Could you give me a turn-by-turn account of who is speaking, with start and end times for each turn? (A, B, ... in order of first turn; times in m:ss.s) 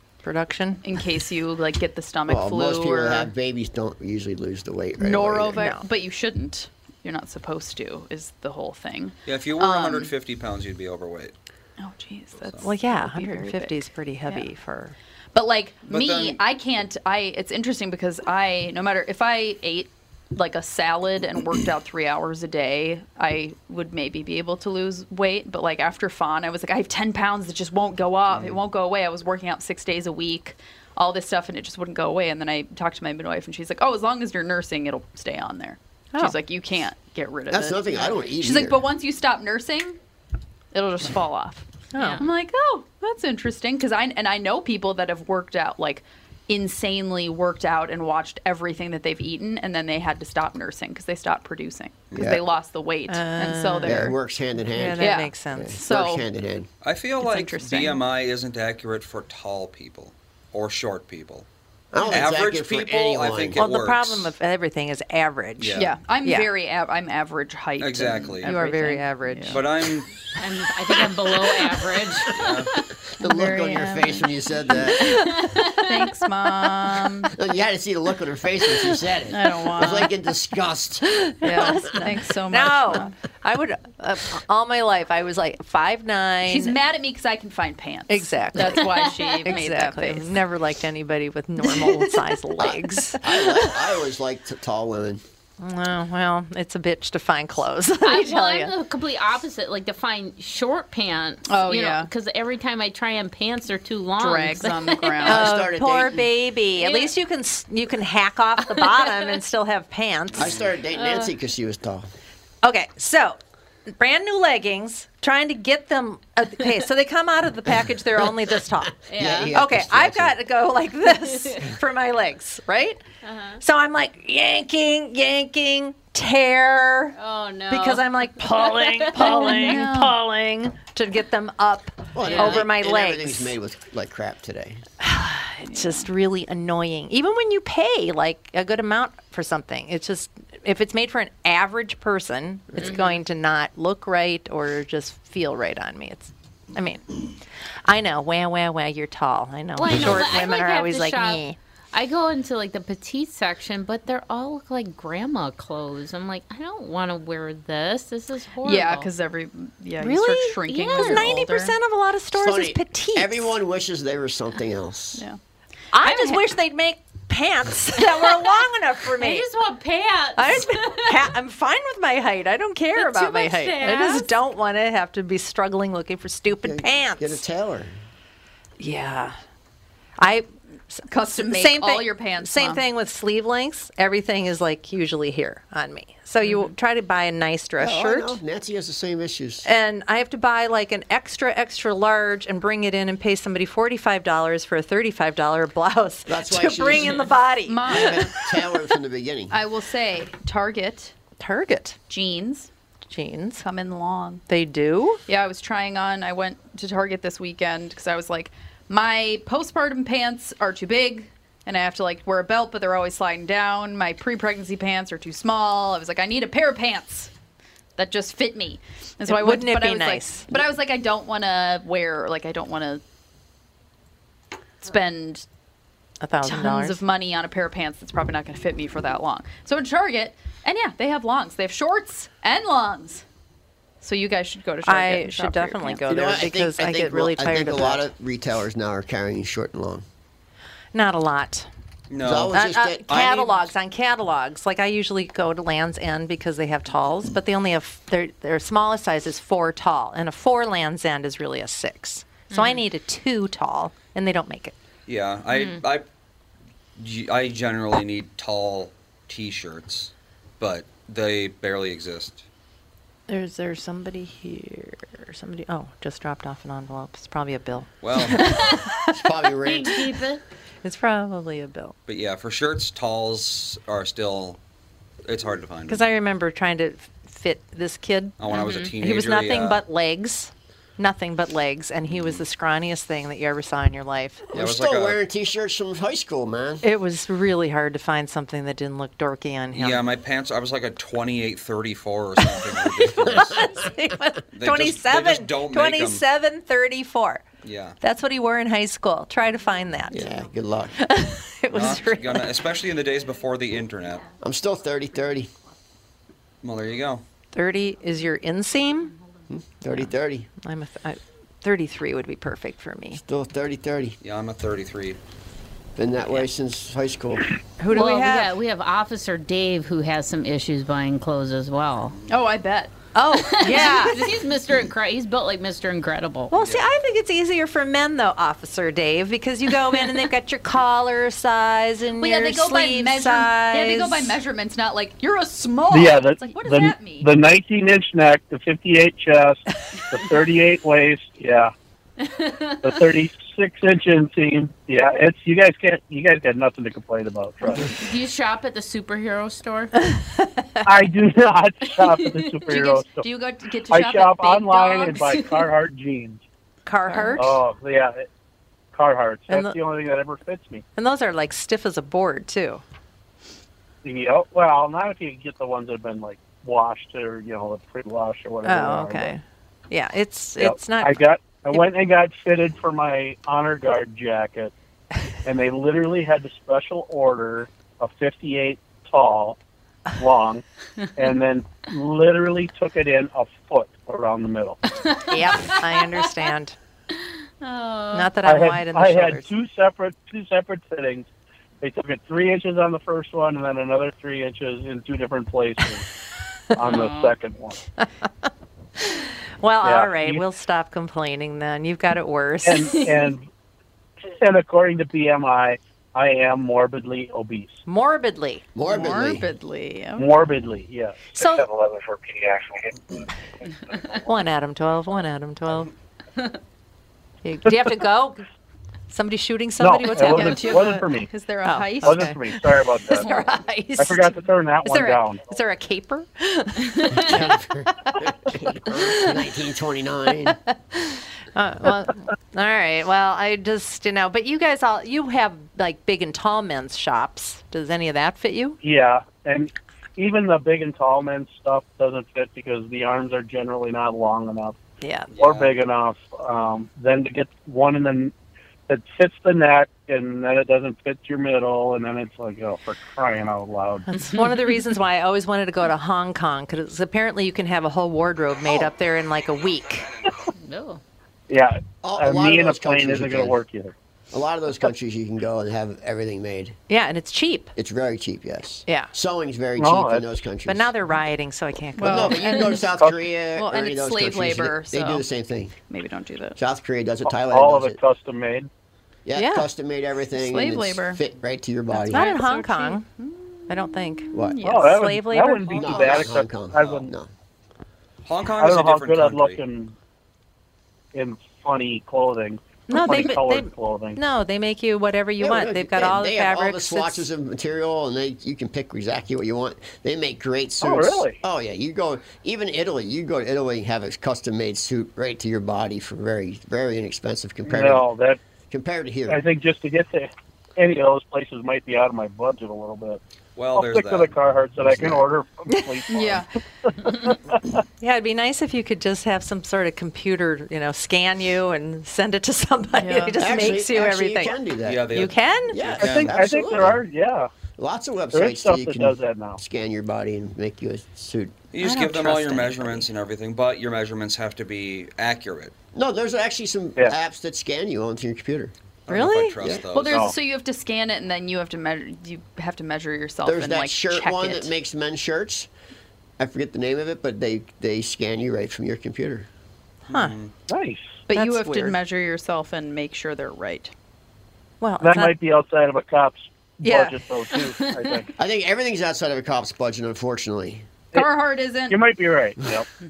0:00.2-0:00.8 A
0:00.8-0:03.3 B
0:02.3-0:05.6 C
0:05.0-0:10.1 B
0:05.6-0:05.8 A
0:09.2-0:11.3 D
0:11.8-0:14.5 B
0:12.4-0:12.7 D
0:12.6-0:14.9 A
0:15.3-0:40.0 B
0:15.8-0:16.4 D
0:28.3-0:28.6 D
0:37.5-0:38.8 C
0:40.7-0:54.2 B
0:41.9-0:42.2 A
0:42.0-0:42.2 E
0:52.1-0:52.4 C
0:53.1-0:54.1 A
0:53.8-0:56.7 C
0:54.7-0:55.8 A
0:55.0-0:56.3 B
0:56.8-1:01.4 D
0:57.2-0:58.0 B
1:01.9-1:03.6 C
1:02.1-1:04.3 D
1:03.6-1:06.5 A
1:05.6-1:05.9 D
1:05.8-1:09.6 B
1:07.8-1:08.5 D
1:08.4-1:09.6 A
1:09.5-1:10.1 D
1:10.4-1:12.9 E
1:11.1-1:12.6 C
1:12.3-1:12.7 D
1:13.2-1:15.3 C
1:13.2-1:14.3 B
1:14.8-1:16.1 E
1:15.8-1:17.3 B
1:17.3-1:21.1 C
1:19.3-1:20.1 B
1:21.4-1:23.1 B
1:21.4-1:26.8 A
1:26.4-1:30.3 B
1:28.1-1:33.7 A
1:28.9-1:29.5 E
1:31.7-1:32.3 B
1:32.6-1:35.2 C
1:35.6-1:38.7 A
1:38.0-1:45.3 E
1:41.5-1:42.1 B
1:44.2-1:45.4 B
1:45.2-1:50.6 A
1:45.2-1:46.3 C
1:46.8-1:47.1 E
1:48.7-1:49.3 E
1:50.4-1:52.1 C
1:50.9-1:51.3 E
1:52.6-1:53.4 A
1:54.0-1:58.9 A
1:58.2-1:58.6 C
1:59.1-1:59.5 E
1:59.1-2:00.4 C
1:59.5-2:03.0 A
2:01.2-2:01.6 E
2:03.2-2:03.6 E
2:03.6-2:07.2 A
2:07.1-2:09.7 E
2:07.7-2:13.5 A
2:09.2-2:10.2 B
2:12.1-2:14.8 C
2:12.2-2:12.6 E
2:15.0-2:27.3 A
2:15.6-2:16.1 B
2:22.8-2:23.2 E
2:27.8-2:31.6 A
2:29.8-2:39.1 E
2:38.6-2:41.8 B
2:40.0-2:43.6 A
2:40.7-2:41.3 E
2:42.3-2:45.2 C
2:45.9-2:49.4 A
2:48.1-2:48.6 E
2:49.2-2:51.3 E
2:50.4-2:57.4 A
2:53.0-2:54.3 E
2:56.6-2:58.0 C
2:58.8-2:59.4 A
3:00.2-3:08.4 A
3:01.1-3:02.8 B
3:07.8-3:09.7 C
3:09.6-3:18.7 A
3:16.3-3:17.3 C
3:17.6-3:18.4 B
3:17.8-3:19.6 C
3:19.5-3:21.1 B
3:21.4-3:22.0 A
3:22.1-3:22.7 B
3:23.1-3:23.6 A
3:23.6-3:24.4 B
3:24.5-3:25.2 A
3:25.3-3:37.3 B
3:38.0-3:43.0 B
3:39.2-3:40.5 A
3:44.8-3:45.4 B
3:46.2-3:47.0 A
3:46.4-3:53.2 B
3:54.0-3:56.0 B
3:54.8-3:58.0 A
3:56.1-4:00.0 C
4:00.9-4:01.7 A
4:02.1-4:03.7 D
4:02.2-4:03.4 C
4:02.5-4:14.7 A
4:12.5-4:12.8 E
4:15.1-4:16.0 D
4:15.5-4:15.8 E
4:17.0-4:22.4 D
4:23.3-4:29.1 A
4:28.0-4:28.8 D
4:28.4-4:28.8 E
4:29.1-4:30.2 C
4:29.6-4:30.4 E
4:30.8-4:31.9 A
4:32.1-4:34.6 D
4:35.2-4:36.0 D
4:35.9-4:38.4 A
4:38.4-4:39.8 D
4:38.5-4:38.9 E
4:39.0-4:44.4 A
4:42.1-4:42.4 D
4:44.5-4:46.8 C
4:44.5-4:45.2 D
4:46.8-4:50.0 A
4:49.7-4:53.7 D
4:52.4-4:57.4 A
4:53.3-4:53.8 C
4:54.5-4:56.2 D
4:57.6-4:58.0 D
4:58.0-5:00.3 A
5:00.1-5:01.1 C
5:01.0-5:02.6 A
5:01.7-5:04.3 D
5:04.4-5:05.5 C
5:06.6-5:07.2 D
5:07.5-5:09.1 A
5:09.5-5:10.5 C
5:10.6-5:13.2 A
5:13.1-5:14.2 C
5:14.2-5:15.2 D
5:16.0-5:17.5 C
5:17.8-5:18.5 A
5:17.9-5:22.2 E
5:22.3-5:22.9 B
5:23.1-5:24.3 A
5:23.4-5:26.5 E
5:26.5-5:34.4 A
5:26.5-5:26.9 D
5:32.1-5:37.3 B
5:35.9-5:41.7 F
5:42.2-5:43.0 E
5:42.8-5:47.9 F
5:47.8-5:49.9 E
5:50.0-5:50.8 A
5:50.8-5:53.3 F
5:52.0-5:52.3 E
5:52.7-5:55.2 B
5:53.9-5:56.4 F
5:54.7-5:55.7 E
5:56.8-5:57.5 A
5:57.1-5:57.4 B
5:57.4-5:58.3 F
5:58.9-6:00.8 F
5:59.5-5:59.8 A
6:01.0-6:02.8 A
6:04.0-6:09.3 F
6:08.6-6:11.2 A
6:10.6-6:14.7 F
6:15.4-6:19.6 F
6:20.2-6:20.6 F
6:21.2-6:24.8 F
6:25.0-6:26.2 E
6:25.3-6:26.8 A
6:27.6-6:28.3 E
6:28.1-6:29.5 A
6:28.4-6:31.3 F
6:31.8-6:36.1 F
6:36.7-6:37.8 F
6:36.8-6:37.4 E
6:39.0-6:43.0 A
6:39.8-6:40.4 F
6:42.6-6:43.5 F
6:42.9-6:43.3 E
6:44.3-6:47.8 F
6:47.8-6:48.6 A
6:48.7-6:49.5 C
6:48.8-6:50.3 B
6:50.2-6:53.0 F
6:51.4-6:51.7 A
6:54.1-6:55.9 A
6:57.4-6:58.4 A
6:57.6-6:58.0 F
6:59.1-7:01.0 A
6:59.8-7:01.3 F
7:00.3-7:02.4 B
7:01.6-7:02.4 A
7:02.0-7:03.3 F
7:03.0-7:07.4 A
7:03.2-7:03.5 B
7:04.0-7:05.4 F
7:07.1-7:10.6 C
7:08.0-7:09.4 A
7:10.7-7:18.8 A
7:18.8-7:24.8 F
7:25.0-7:25.3 A
7:25.3-7:25.7 D
7:25.4-7:28.3 F
7:28.9-7:34.1 F
7:34.1-7:40.1 A
7:38.6-7:38.9 C
7:40.6-7:41.0 E
7:41.5-7:43.9 F
7:42.0-7:43.6 C
7:44.3-7:46.8 C
7:46.9-7:47.7 A
7:47.8-7:50.9 C
7:49.8-7:50.2 F
7:50.7-7:52.7 A
7:52.0-7:52.9 B
7:52.0-7:55.8 C
7:53.5-7:55.2 B
7:55.9-7:56.6 B
7:56.6-7:58.0 C
7:57.2-7:58.7 F
7:59.2-8:02.2 C
7:59.3-7:59.7 A
8:00.3-8:01.2 B
8:02.0-8:03.0 A
8:02.0-8:04.9 B
8:03.7-8:06.3 A
8:04.3-8:04.6 C
8:04.6-8:07.1 F
8:05.7-8:07.3 C
8:08.2-8:09.6 D
8:08.6-8:09.9 F
8:11.1-8:14.2 F
8:12.9-8:17.3 A
8:15.4-8:28.0 C
8:20.8-8:21.4 F
8:27.6-8:28.4 F
8:28.7-8:29.4 C
8:29.3-8:33.2 F
8:33.6-8:34.3 D
8:33.7-8:37.8 F
8:36.1-8:36.5 B
8:38.0-8:44.6 A
8:43.0-8:43.4 B
8:43.4-8:47.0 C
8:44.8-8:46.9 D
8:45.1-8:45.8 A
8:46.0-8:47.5 F
8:47.8-8:51.6 C
8:48.3-8:49.6 F
8:51.7-8:55.7 D
8:51.8-8:53.0 A
8:55.9-8:58.7 C
8:59.1-9:00.3 D
8:59.1-8:59.6 A
8:59.6-8:59.9 C
8:59.9-9:04.7 B
9:03.4-9:05.7 C
9:06.4-9:09.5 C
9:10.1-9:10.5 D
9:10.7-9:11.2 F
9:11.3-9:13.9 B
9:11.3-9:12.0 A
9:14.8-9:15.3 A
9:15.0-9:18.3 F
9:16.8-9:17.6 A
9:18.4-9:20.9 C
9:21.2-9:22.0 B
9:21.9-9:22.9 F